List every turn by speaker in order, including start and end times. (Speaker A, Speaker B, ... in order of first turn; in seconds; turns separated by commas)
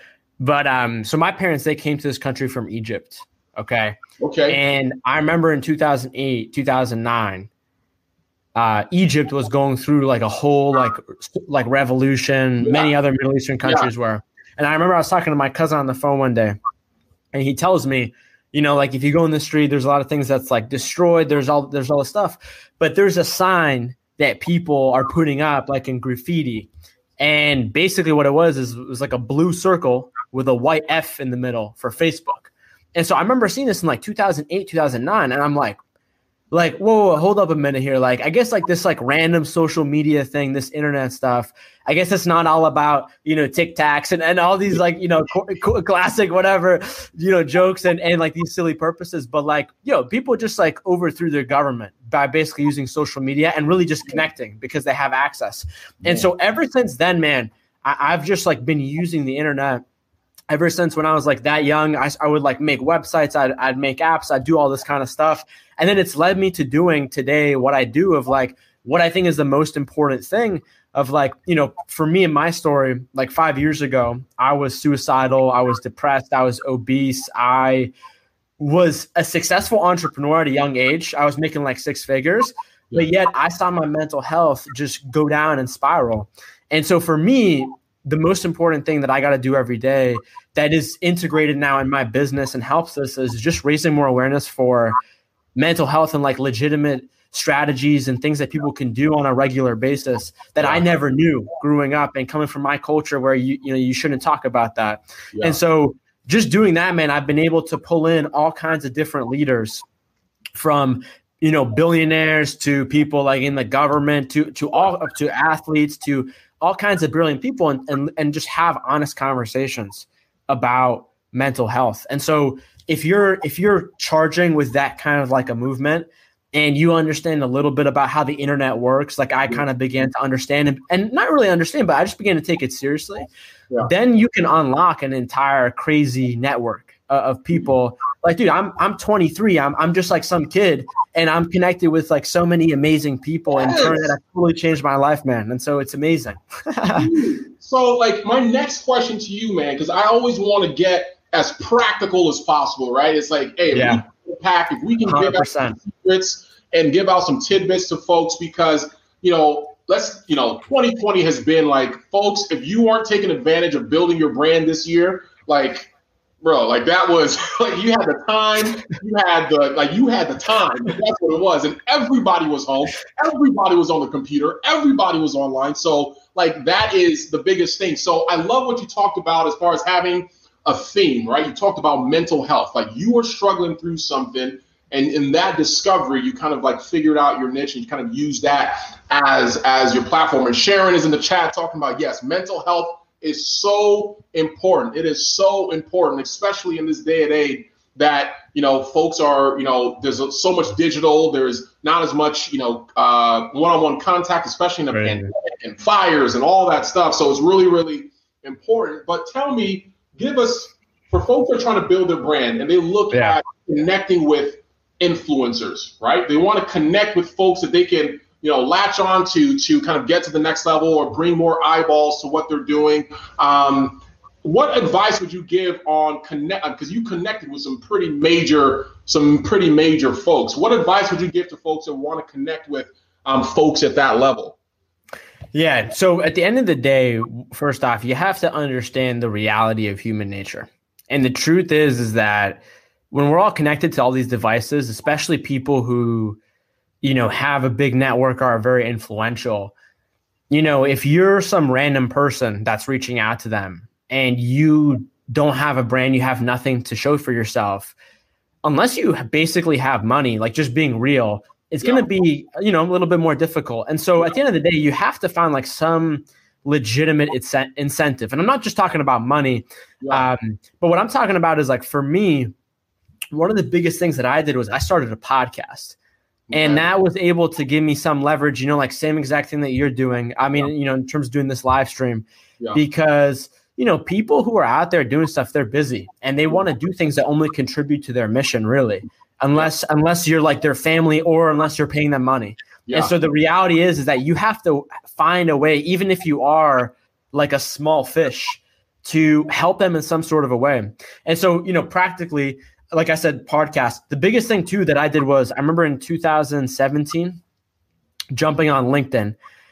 Speaker A: 0.4-4.0, Speaker B: 4.2-4.6, Speaker A: 4.5-7.5, Speaker A: 8.6-16.6, Speaker B: 12.6-12.9, Speaker B: 13.7-13.9, Speaker A: 17.3-35.8, Speaker A: 36.5-59.8, Speaker A: 60.5-77.9, Speaker A: 78.6-95.0, Speaker A: 95.6-109.8, Speaker A: 110.6-133.3, Speaker A: 133.8-147.1, Speaker B: 143.5-144.1, Speaker B: 146.9-165.9, Speaker A: 153.7-154.0, Speaker A: 155.1-155.8, Speaker B: 166.4-234.6, Speaker A: 204.9-205.3, Speaker A: 213.1-213.4, Speaker A: 235.5-246.4, Speaker A: 247.0-249.7, Speaker A: 250.5-257.9, Speaker A: 258.6-272.5, Speaker B: 261.8-262.1, Speaker B: 270.0-270.3, Speaker A: 273.3-276.0, Speaker B: 276.5-276.9, Speaker A: 276.5-307.4, Speaker B: 292.9-293.1, Speaker A: 308.3-309.4